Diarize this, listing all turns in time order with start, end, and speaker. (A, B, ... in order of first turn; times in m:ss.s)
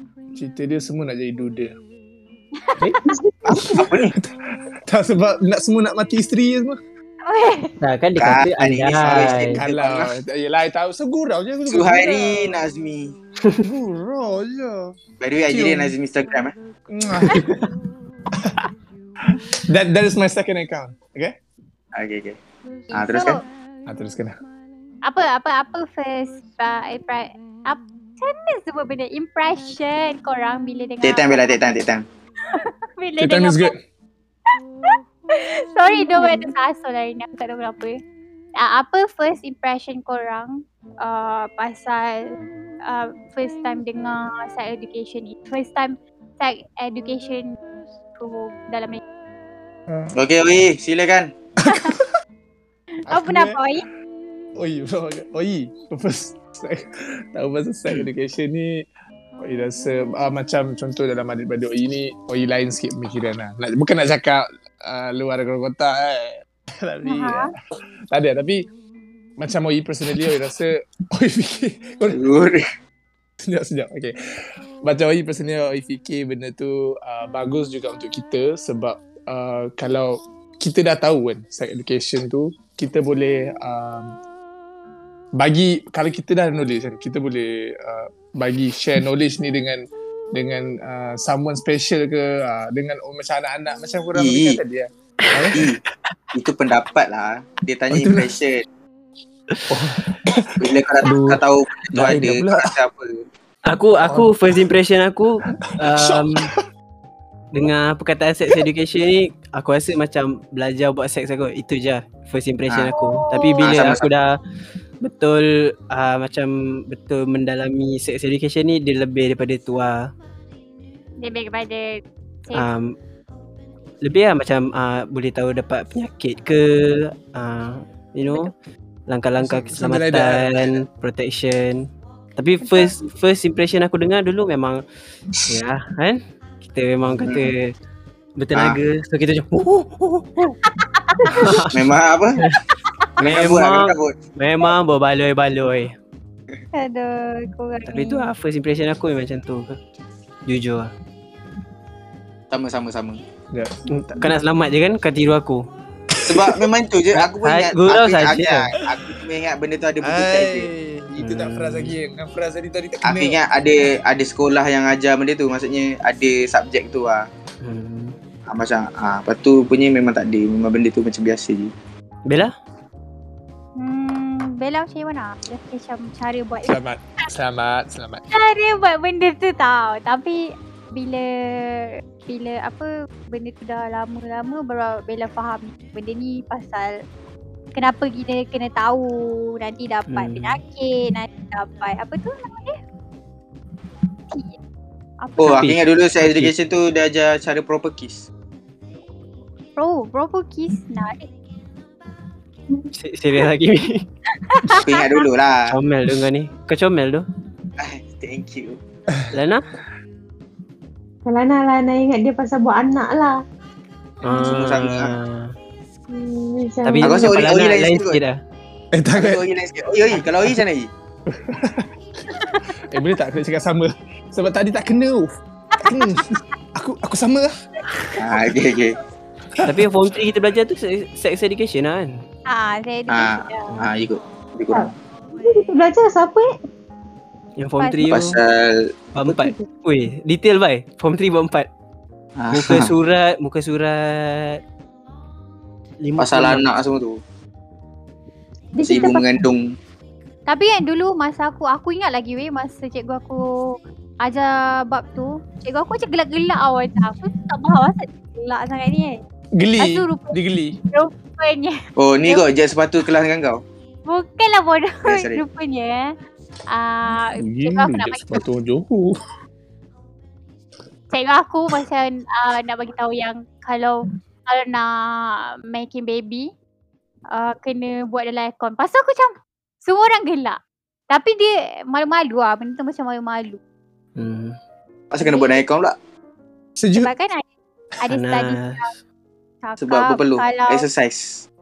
0:00.3-0:01.8 A
0:03.1-0:03.7 B
0:03.5-0:04.1 C
0:03.6-0:04.3 A
0:04.9-0:06.8 A
0:07.3-0:07.8 D
0:07.8-0:09.6 E
0:08.2-0:10.1 C
0:09.0-0:12.5 A
0:11.7-0:13.1 C
0:13.6-0:14.9 A
0:15.2-0:16.5 C
0:15.5-0:15.9 A
0:16.9-0:17.7 A
0:18.3-0:18.7 A
0:19.3-0:21.4 A
0:22.0-0:22.4 C
0:22.9-0:23.4 D
0:22.9-0:23.4 C
0:23.9-0:24.4 A
0:25.0-0:31.6 D
0:31.0-0:32.1 C
0:32.5-0:33.8 D
0:33.2-0:33.8 A
0:34.9-0:38.0 D
0:35.9-0:36.5 B
0:38.6-0:47.6 D
0:48.2-0:49.0 D
0:49.9-0:50.1 A
0:50.2-0:51.3 C
0:51.6-0:52.1 A
0:51.6-0:52.0 D
0:53.1-0:53.8 D
0:53.1-0:53.6 A
0:54.6-0:56.8 A
0:57.4-0:58.8 A
0:59.4-1:07.5 A
1:07.0-1:07.5 D
1:08.1-1:08.7 A
1:09.4-1:12.2 A
1:12.1-1:12.6 C
1:13.4-1:14.1 A
1:14.8-1:24.1 A
1:25.4-1:35.7 A
1:34.1-1:34.6 C
1:35.4-1:35.6 E
1:35.6-1:35.8 C
1:36.3-1:38.6 C
1:37.9-1:38.4 A
1:39.7-1:42.8 A
1:40.6-1:43.2 C
1:43.6-1:46.5 E
1:44.0-1:44.6 A
1:45.5-1:46.6 A
1:47.5-1:54.4 E
1:52.9-1:53.8 D
1:53.6-1:54.1 C
1:55.0-2:00.1 E
2:01.2-2:02.7 D
2:02.6-2:03.0 E
2:04.0-2:08.5 E
2:08.3-2:08.5 D
2:09.1-2:14.8 E
2:09.4-2:10.8 A
2:12.6-2:13.0 D
2:15.5-2:17.7 E
2:17.2-2:17.5 C
2:18.4-2:20.3 E
2:18.5-2:18.8 C
2:20.7-2:21.5 D
2:21.3-2:21.8 E
2:21.7-2:22.4 C
2:23.2-2:24.1 C
2:23.2-2:26.0 E
2:26.8-2:28.3 D
2:27.9-2:29.8 E
2:30.5-2:30.9 E
2:32.5-2:33.2 C
2:33.5-2:34.3 A
2:33.9-2:35.7 E
2:36.3-2:40.7 C
2:37.1-2:38.7 E
2:38.8-2:39.1 A
2:40.0-2:43.4 A
2:41.2-2:41.9 E
2:43.0-2:47.3 C
2:47.6-2:48.2 E
2:48.5-2:51.7 C
2:52.3-2:52.5 E
2:53.8-2:56.8 D
2:56.6-2:58.2 A
2:58.3-3:07.0 D
3:07.8-3:12.8 D
3:10.1-3:10.6 E
3:14.3-3:14.6 D
3:15.2-3:15.6 D
3:15.4-3:18.3 C
3:15.4-3:16.5 E
3:19.8-3:21.3 D
3:22.9-3:24.1 E
3:24.3-3:25.0 D
3:24.8-3:25.8 C
3:25.7-3:27.3 E
3:27.8-3:28.8 C
3:29.3-3:29.6 E
3:31.2-3:33.4 B
3:34.2-3:35.6 E
3:34.3-3:34.6 D
3:34.4-3:35.2 C
3:36.1-3:37.4 B
3:36.8-3:38.4 E
3:37.0-3:38.2 C
3:38.9-3:39.4 A
3:39.1-3:40.9 C
3:40.1-3:40.6 E
3:41.3-3:41.9 A
3:42.3-3:42.8 D
3:42.7-3:48.4 A
3:45.8-3:46.4 D
3:48.2-3:49.0 C
3:49.6-3:49.9 A
3:49.6-3:52.2 E
3:52.5-3:53.7 D
3:53.1-3:54.9 C
3:54.7-3:56.5 B
3:57.6-3:58.4 E
3:57.8-3:58.2 D
3:58.1-3:58.9 C
3:59.1-4:01.7 E
3:59.3-3:59.6 B
4:02.4-4:02.9 C
4:02.5-4:04.6 E
4:06.0-4:06.7 E
4:06.2-4:07.2 C
4:08.8-4:09.2 B
4:08.8-4:09.6 C
4:10.5-4:19.2 D
4:19.6-4:20.8 A
4:19.8-4:20.4 D
4:20.9-4:22.5 D
4:22.0-4:23.6 C
4:24.1-4:26.1 D
4:25.1-4:25.4 C
4:26.7-4:28.4 D
4:27.4-4:29.1 A
4:31.1-4:36.5 D
4:37.3-4:40.6 D
4:41.1-4:43.6 D
4:44.2-4:44.6 E
4:45.1-4:46.0 C
4:45.2-4:45.6 D
4:46.8-4:47.1 A
4:46.9-4:47.5 D
4:48.0-4:48.9 D
4:48.1-4:48.9 E
4:49.6-4:50.9 D
4:49.8-4:51.4 C